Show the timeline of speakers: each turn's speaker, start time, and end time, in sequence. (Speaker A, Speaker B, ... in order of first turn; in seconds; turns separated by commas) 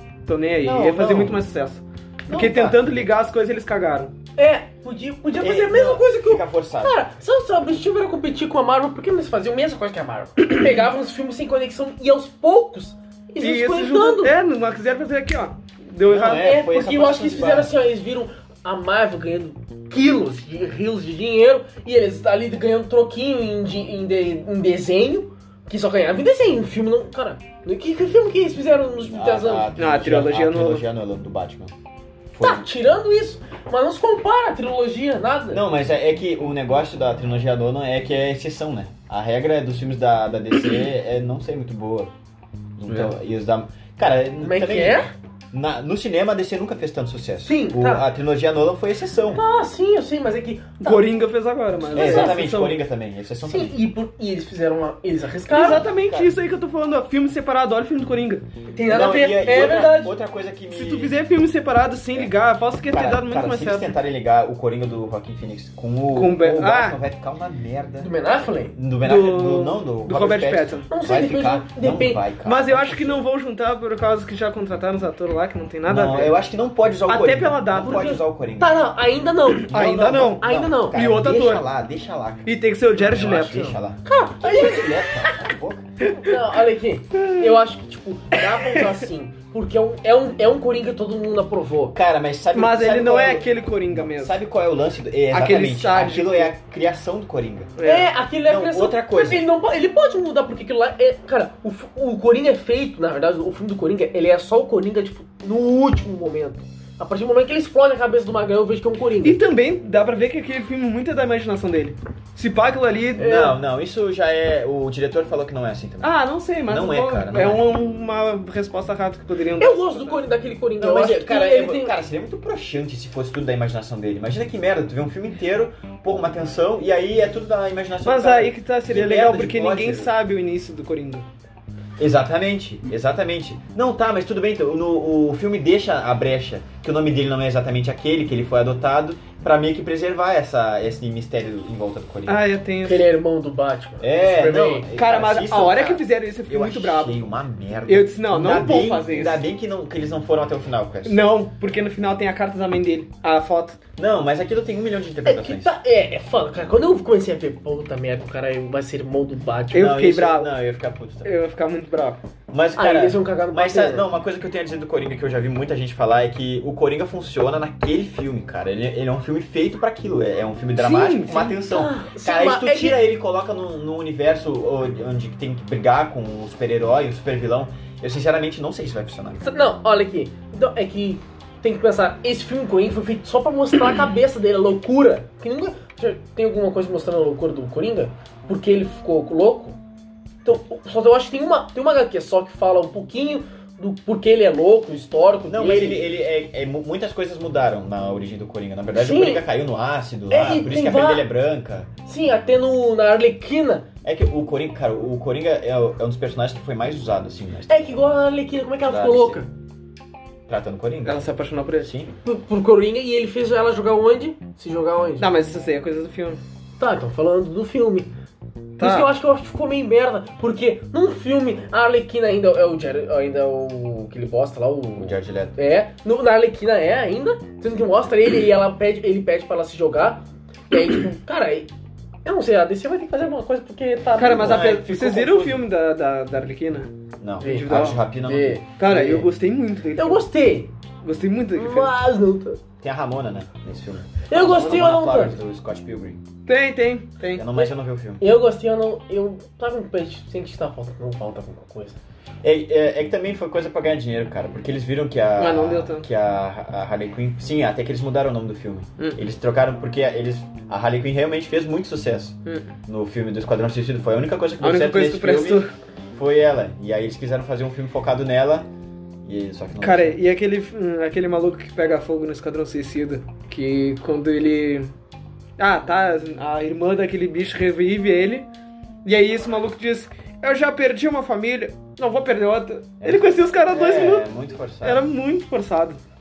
Speaker A: 0.3-4.1, Speaker B: 0.6-1.4, Speaker B: 2.3-3.0, Speaker C: 4.4-14.3, Speaker B: 5.4-7.0, Speaker A: 13.4-16.7, Speaker B: 16.1-17.7, Speaker C: 16.3-29.7, Speaker B: 29.1-31.7, Speaker A: 29.8-30.8, Speaker B: 32.3-32.6, Speaker C: 32.4-35.6, Speaker B: 35.5-42.1, Speaker B: 42.8-49.4, Speaker C: 44.4-45.1, Speaker C: 47.4-48.1, Speaker C: 49.3-51.1, Speaker A: 50.8-52.8, Speaker C: 51.8-52.4, Speaker B: 51.9-53.8, Speaker C: 53.5-55.9, Speaker A: 55.5-58.5, Speaker B: 55.8-56.3, Speaker C: 58.7-60.1, Speaker B: 58.9-61.2, Speaker A: 60.7-63.9, Speaker B: 62.9-68.1, Speaker A: 66.1-67.0, Speaker C: 68.0-68.7, Speaker B: 68.7-73.2, Speaker A: 69.0-70.9, Speaker C: 70.9-72.2, Speaker A: 72.4-76.4, Speaker B: 75.9-78.8, Speaker A: 77.1-78.1, Speaker C: 77.8-79.8, Speaker A: 79.6-81.6, Speaker B: 79.7-85.9, Speaker C: 80.4-81.0, Speaker A: 82.4-83.8, Speaker C: 84.0-85.3, Speaker A: 86.0-86.4, Speaker C: 86.1-92.0, Speaker A: 87.2-87.6, Speaker A: 88.3-89.0, Speaker B: 91.9-97.7, Speaker A: 92.5-94.4, Speaker A: 95.3-96.5, Speaker A: 97.8-98.1, Speaker C: 97.8-109.4, Speaker B: 98.4-99.5, Speaker A: 109.2-113.4, Speaker C: 113.2-113.6, Speaker B: 113.2-116.1, Speaker A: 116.0-120.3, Speaker B: 116.6-117.7, Speaker C: 119.6-121.9, Speaker B: 120.8-130.1, Speaker A: 128.0-131.3, Speaker B: 132.0-142.4, Speaker A: 142.3-143.1, Speaker C: 142.8-144.9, Speaker B: 144.0-151.2, Speaker A: 145.0-147.2, Speaker A: 147.9-149.4, Speaker A: 151.1-153.8, Speaker B: 154.0-155.7, Speaker C: 155.2-160.0, Speaker A: 159.7-160.5, Speaker B: 159.7-161.3, Speaker A: 161.2-162.2, Speaker B: 162.5-179.5, Speaker C: 162.8-164.1, Speaker A: 170.8-171.6, Speaker C: 171.7-173.0, Speaker C: 179.4-189.8, Speaker C: 190.4-196.1, Speaker B: 195.5-201.9, Speaker C: 198.9-199.4, Speaker C: 200.3-201.3, Speaker C: 202.1-203.9, Speaker B: 204.0-207.9, Speaker C: 207.7-209.5, Speaker B: 208.8-209.4, Speaker B: 210.5-212.1, Speaker A: 211.1-211.9, Speaker C: 212.2-215.3, Speaker A: 215.2-216.4, Speaker C: 216.8-218.1, Speaker A: 218.8-219.1, Speaker C: 218.8-231.7, Speaker B: 225.0-225.6, Speaker C: 232.2-234.6, Speaker A: 234.2-238.0, Speaker B: 234.4-235.7, Speaker B: 237.2-238.6, Speaker C: 237.4-239.3, Speaker A: 238.8-240.3, Speaker C: 239.9-240.7, Speaker A: 241.0-242.0, Speaker C: 241.6-242.6, Speaker B: 242.8-246.2, Speaker C: 244.3-245.4, Speaker A: 246.5-247.4, Speaker B: 247.3-248.2, Speaker C: 248.2-252.0, Speaker B: 252.4-268.7, Speaker A: 255.4-256.1, Speaker A: 264.6-265.7, Speaker B: 269.2-270.2, Speaker A: 269.8-274.9, Speaker A: 275.6-278.5, Speaker A: 279.1-284.2, Speaker B: 283.0-285.1, Speaker A: 284.8-286.0